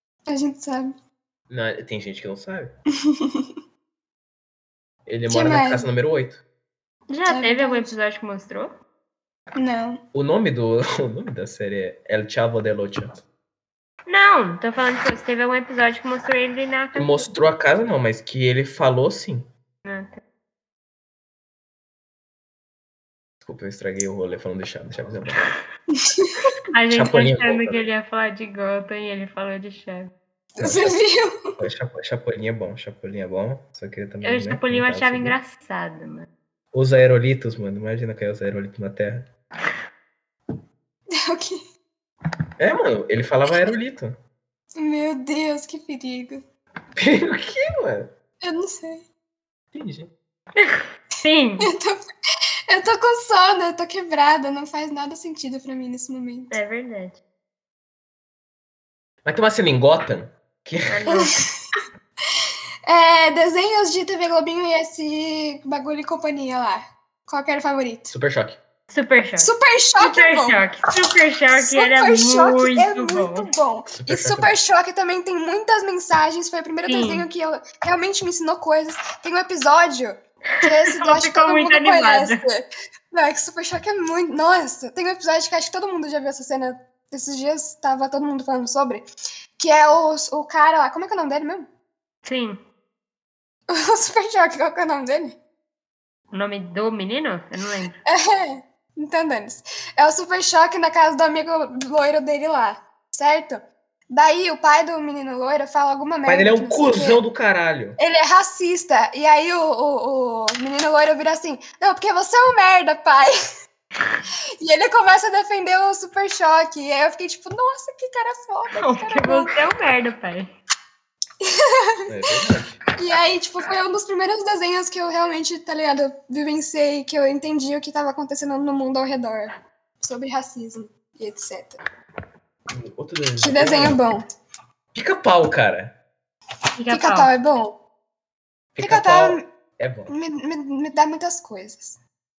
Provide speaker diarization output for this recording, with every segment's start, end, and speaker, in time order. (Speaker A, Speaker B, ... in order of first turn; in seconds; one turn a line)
Speaker A: 0.2-0.9
Speaker B: 1.5-2.7
Speaker A: 3.1-3.5
Speaker B: 5.0-6.4
Speaker A: 5.3-5.9
Speaker C: 7.1-8.7
Speaker A: 7.3-7.9
Speaker A: 9.6-10.0
Speaker B: 10.1-13.2
Speaker C: 14.1-17.3
Speaker B: 16.9-19.5
Speaker C: 19.8-20.1
Speaker B: 23.4-25.5
Speaker C: 26.7-30.1
Speaker B: 26.9-27.9
Speaker A: 30.5-31.4
Speaker B: 30.6-31.0
Speaker B: 31.6-35.4
Speaker C: 34.2-36.3
Speaker B: 36.7-39.2
Speaker A: 41.1-41.6
Speaker B: 42.6-44.1
Speaker A: 44.7-46.4
Speaker B: 47.0-48.1
Speaker A: 48.4-49.1
Speaker B: 49.7-50.1
Speaker C: 50.5-51.7
Speaker A: 51.6-52.0
Speaker A: 52.7-56.6
Speaker C: 56.5-57.2
Speaker B: 59.2-61.0
Speaker C: 60.9-61.3
Speaker A: 62.9-68.1
Speaker B: 68.1-68.6
Speaker C: 68.9-73.5
Speaker A: 69.4-70.6
Speaker A: 71.5-89.0
Speaker B: 74.0-74.5
Speaker C: 76.8-77.2
Speaker C: 80.6-82.4
Speaker A: 89.6-91.7
Speaker C: 92.2-92.6
Speaker A: 93.7-95.4
Speaker C: 96.3-98.0
Speaker A: 98.0-107.2
Speaker B: 106.2-108.0
Speaker A: 108.0-113.3
Speaker A: 114.6-119.5
Speaker C: 118.8-120.5
Speaker B: 122.1-122.8
Speaker A: 123.0-129.5
Speaker A: 130.0-131.8
Speaker B: 132.7-134.0
Speaker A: 133.4-134.2
Speaker B: 134.9-135.9
Speaker C: 136.8-137.3
Speaker A: 136.9-137.8
Speaker B: 138.7-140.1
Speaker A: 138.8-139.4
Speaker A: 140.1-142.0